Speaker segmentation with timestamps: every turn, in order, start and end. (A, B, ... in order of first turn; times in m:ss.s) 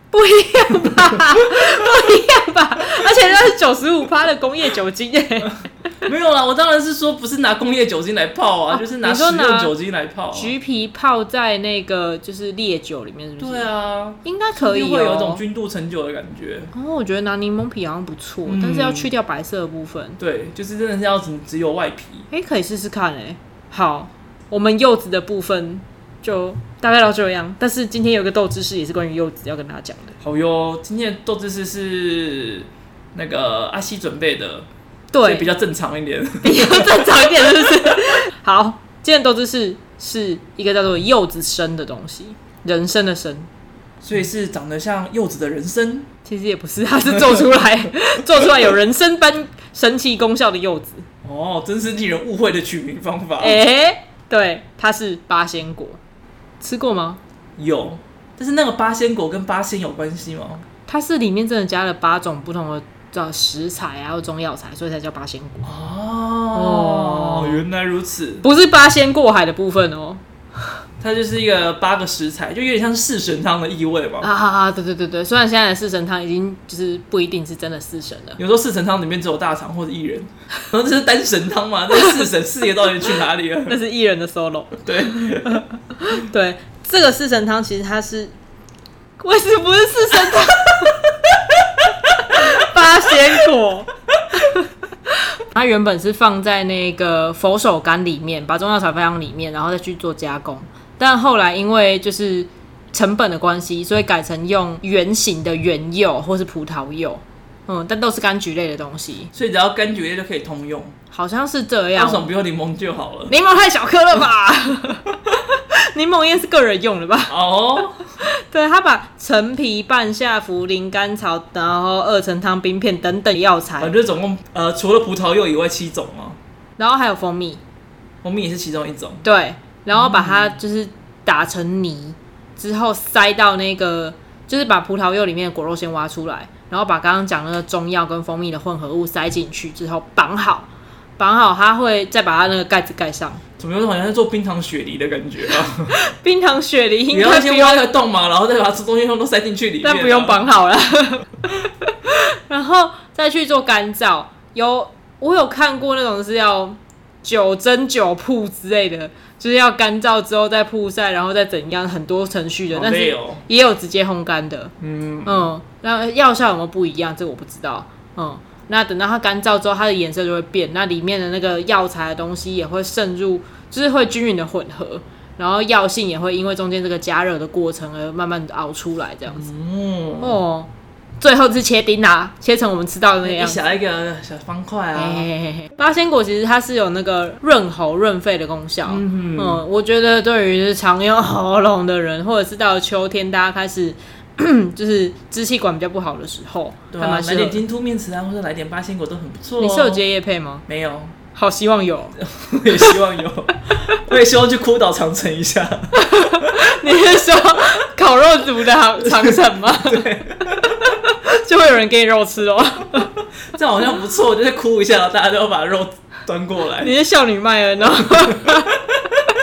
0:00.1-0:05.6 A
0:01.1-0:01.6 B
0:06.1-0:10.5 B
0:08.8-0:09.7 A
0:10.3-0:13.7 A
0:13.4-0:16.7 B
0:14.2-0:15.4 A
0:16.7-0:20.2 A
0:18.5-0:19.1 B
0:20.2-0:22.3 B
0:22.3-0:30.2 A
0:30.2-0:34.7 B
0:35.1-0:35.5 A
0:35.2-0:38.0 B
0:36.4-0:43.5 A
0:44.0-0:46.1 B
0:46.2-0:51.1 A
0:47.1-0:47.5 B
0:51.2-0:53.6 B
0:53.4-0:56.0 A
0:56.6-0:57.2 A
0:57.6-1:00.6 B
1:00.9-1:05.7 A
1:05.6-1:08.4 B
1:06.5-1:07.6 A
1:08.4-1:10.7 A
1:11.0-1:14.3 B
1:14.2-1:18.4 A
1:18.4-1:23.8 B
1:23.7-1:28.3 A
1:24.9-1:25.6 B
1:29.2-1:31.0 A
1:32.3-1:49.3 A
1:49.3-1:51.0 B
1:51.1-1:52.3 A
1:52.0-1:53.3 B
1:53.3-1:57.4 A
1:57.3-1:58.0 B
1:58.2-2:03.9 A
2:03.8-2:06.4 B
2:06.8-2:07.6 A
2:08.2-2:09.2 B
2:09.2-2:23.4 A
2:09.9-2:10.6 B
2:23.6-2:25.9 B
2:25.9-2:27.9 A
2:27.1-2:30.4 B
2:29.8-2:44.7 A
2:42.7-2:43.4 B
2:44.8-2:45.5 B
2:45.2-2:59.4 A
2:59.3-3:00.4 B
3:00.2-3:03.6 A
3:03.2-3:05.3 B
3:05.0-3:17.6 A
3:08.9-3:09.6 B
3:16.9-3:20.0 B
3:19.6-3:20.6 A
3:20.7-3:21.2 B
3:21.3-3:22.2 A
3:22.2-3:26.5 B
3:25.9-3:33.1 A
3:29.0-3:30.9 B
3:33.5-3:36.9 B
3:36.8-3:38.8 A
3:38.2-3:39.2 B